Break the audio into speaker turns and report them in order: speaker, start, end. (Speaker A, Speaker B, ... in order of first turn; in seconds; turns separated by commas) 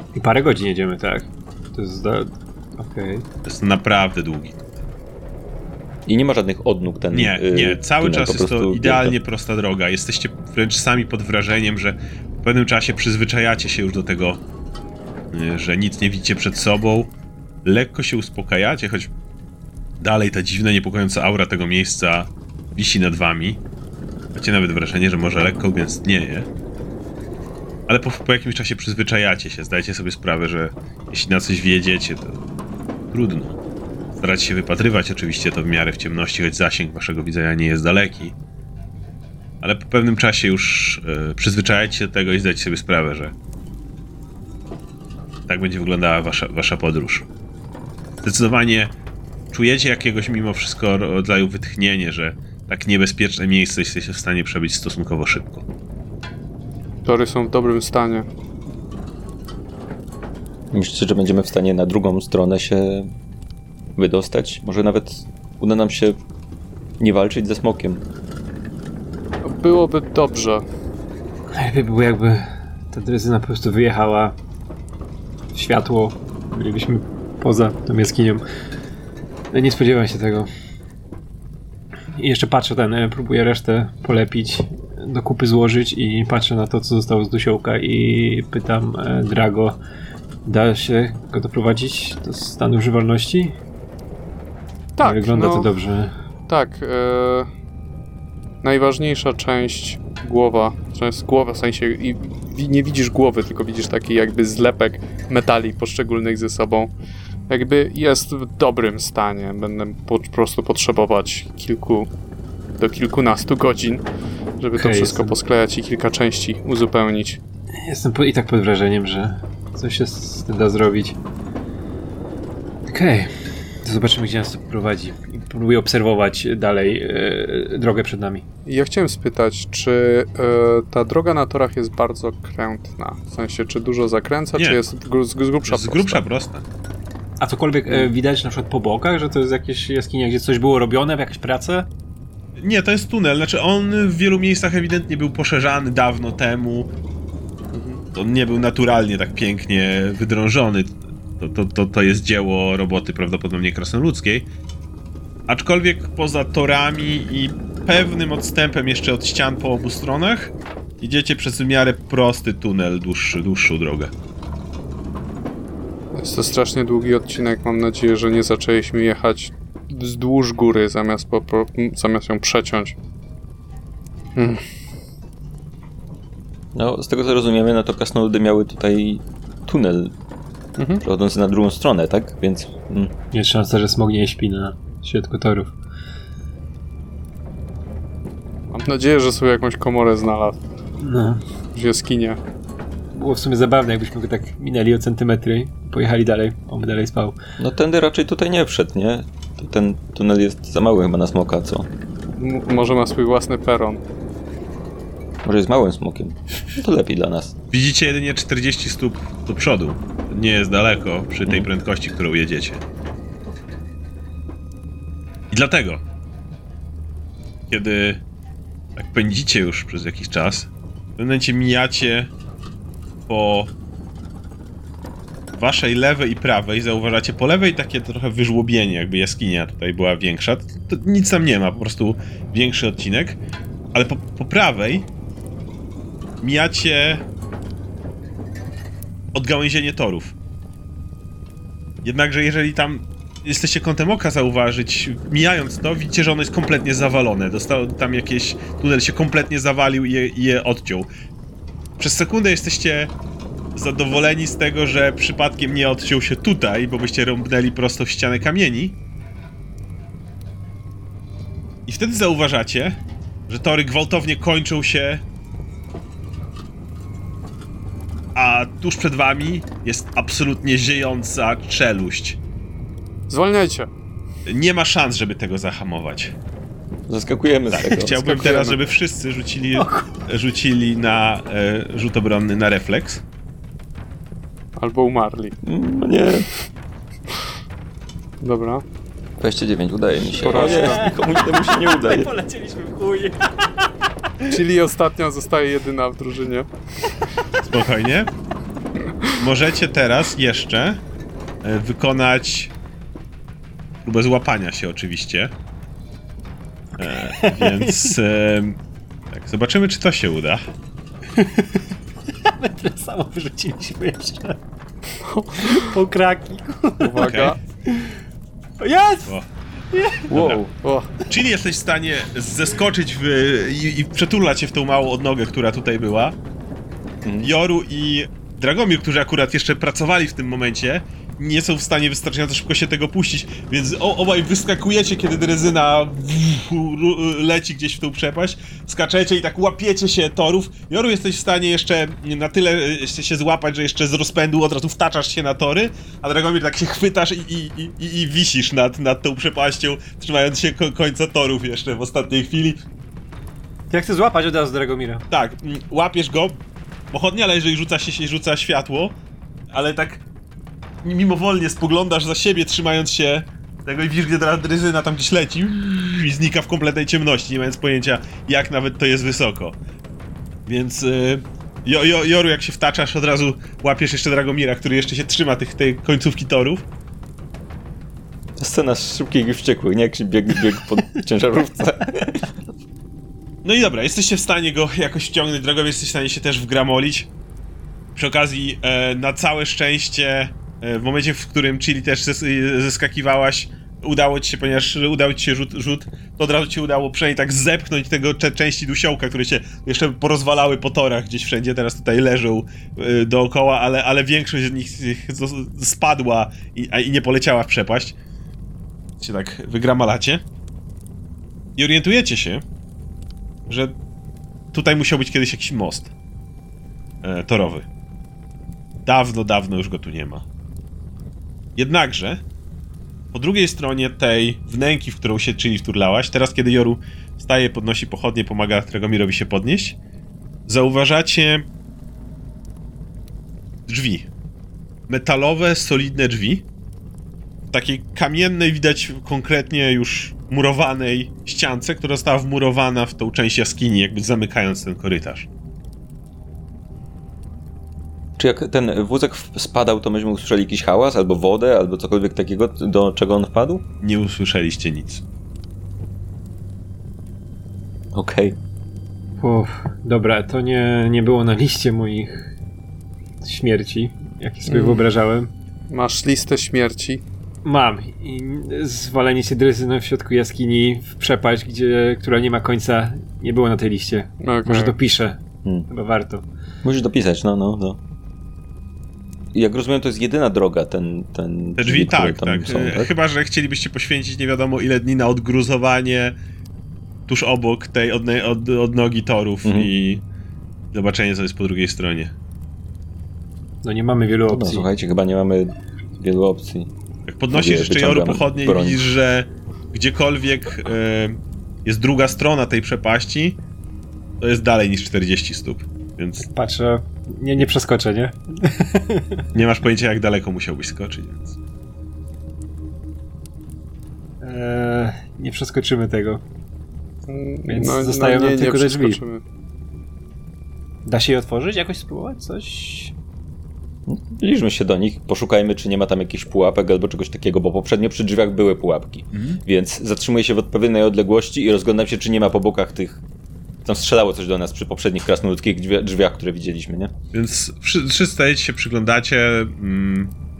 Speaker A: 0.1-3.2, Speaker B: 3.4-4.8, Speaker C: 6.1-9.1, Speaker B: 7.1-14.4, Speaker B: 15.3-17.1, Speaker B: 17.6-19.1, Speaker B: 20.0-23.6, Speaker B: 24.4-26.5, Speaker B: 27.9-32.4, Speaker B: 33.1-33.6, Speaker B: 34.1-38.4, Speaker B: 39.6-43.3, Speaker B: 45.5-47.3, Speaker B: 48.2-49.0, Speaker B: 49.5-55.6, Speaker D: 57.0-58.3, Speaker C: 60.7-63.1, Speaker C: 64.0-66.2, Speaker C: 67.0-68.0, Speaker D: 69.4-70.6, Speaker A: 71.5-74.4, Speaker A: 75.5-78.4, Speaker A: 79.5-80.5, Speaker A: 82.2-89.8, Speaker A: 90.5-93.6, Speaker D: 95.0-95.7, Speaker A: 95.0-96.1, Speaker D: 96.5-97.5, Speaker D: 98.6-106.9, Speaker D: 107.5-112.1, Speaker D: 112.8-114.0, Speaker D: 114.6-117.4, Speaker A: 114.8-115.4, Speaker A: 117.7-121.2, Speaker A: 122.9-128.5, Speaker D: 128.7-136.2, Speaker B: 134.6-134.8, Speaker B: 135.6-136.6, Speaker A: 137.4-141.9, Speaker B: 142.6-146.9, Speaker D: 147.7-148.0, Speaker B: 148.1-154.5, Speaker B: 155.5-164.1, Speaker D: 166.1-172.9, Speaker D: 174.4-174.6, Speaker C: 176.8-180.1, Speaker D: 180.8-181.0, Speaker C: 181.0-183.1, Speaker A: 183.3-185.7, Speaker D: 188.7-190.6, Speaker A: 191.0-191.4, Speaker D: 191.7-192.4, Speaker A: 193.1-197.4, Speaker C: 197.6-201.9, Speaker D: 202.3-204.0, Speaker C: 205.4-207.6, Speaker B: 207.7-212.8, Speaker B: 215.5-216.0, Speaker B: 217.7-218.2, Speaker B: 218.9-222.3, Speaker B: 223.3-223.7, Speaker B: 225.5-233.4, Speaker B: 233.9-235.1, Speaker B: 236.4-237.2, Speaker B: 239.3-240.3, Speaker B: 242.0-251.1, Speaker B: 252.0-253.1, Speaker B: 253.8-259.0, Speaker B: 261.9-265.2, Speaker B: 268.4-272.4, Speaker D: 273.3-273.9, Speaker B: 274.4-276.3, Speaker C: 277.1-278.2, Speaker B: 277.7-283.2, Speaker D: 278.1-278.8, Speaker A: 279.8-280.2, Speaker D: 284.8-285.6, Speaker C: 285.6-286.5, Speaker D: 288.4-288.8, Speaker C: 289.4-292.3, Speaker A: 290.2-294.6, Speaker D: 290.4-291.1, Speaker D: 294.4-296.7, Speaker B: 297.6-298.3, Speaker B: 299.3-301.0, Speaker B: 301.6-302.7, Speaker B: 304.0-305.5, Speaker B: 307.0-308.8, Speaker A: 307.0-308.2, Speaker B: 309.3-310.6, Speaker A: 311.3-314.6, Speaker D: 315.2-315.9, Speaker A: 315.5-318.2, Speaker D: 317.0-317.6, Speaker B: 317.2-317.6, Speaker A: 318.8-319.3, Speaker A: 319.9-320.4, Speaker B: 320.3-320.6, Speaker C: 320.3-320.6, Speaker D: 320.5-321.1, Speaker B: 321.3-326.4, Speaker C: 327.2-327.5, Speaker B: 327.4-352.8, Speaker A: 353.9-355.2, Speaker B: 355.3-356.6, Speaker B: 357.1-359.1, Speaker B: 359.7-360.2, Speaker B: 361.0-369.8, Speaker B: 370.6-376.9, Speaker C: 378.6-382.6, Speaker B: 383.6-387.3, Speaker B: 388.1-408.1, Speaker B: 409.2-410.4, Speaker B: 411.8-412.6, Speaker B: 413.7-413.9, Speaker B: 414.7-416.1, Speaker B: 417.2-417.9, Speaker B: 419.1-420.4, Speaker B: 421.8-422.4, Speaker B: 423.3-430.0, Speaker B: 430.7-431.7, Speaker B: 433.9-434.3, Speaker B: 435.1-436.6, Speaker B: 437.7-445.5, Speaker C: 448.4-453.9, Speaker B: 454.0-455.2, Speaker C: 458.1-458.6, Speaker A: 459.4-462.5, Speaker A: 463.4-465.5, Speaker D: 464.7-465.1, Speaker D: 465.9-467.2, Speaker A: 467.6-476.5, Speaker D: 474.4-474.9, Speaker C: 476.8-478.0, Speaker C: 479.5-483.1, Speaker B: 481.8-486.4, Speaker B: 487.3-490.2, Speaker C: 489.6-489.9, Speaker B: 490.9-492.3, Speaker A: 493.8-494.9, Speaker C: 494.5-496.9, Speaker B: 497.3-503.6, Speaker C: 497.5-499.0, Speaker B: 504.4-506.5, Speaker A: 506.4-509.4, Speaker B: 509.5-511.6, Speaker A: 514.4-516.4, Speaker D: 517.3-519.4, Speaker A: 517.7-519.2, Speaker A: 521.1-523.1, Speaker C: 524.1-533.2, Speaker B: 529.3-529.6, Speaker C: 533.9-537.1, Speaker B: 537.3-540.3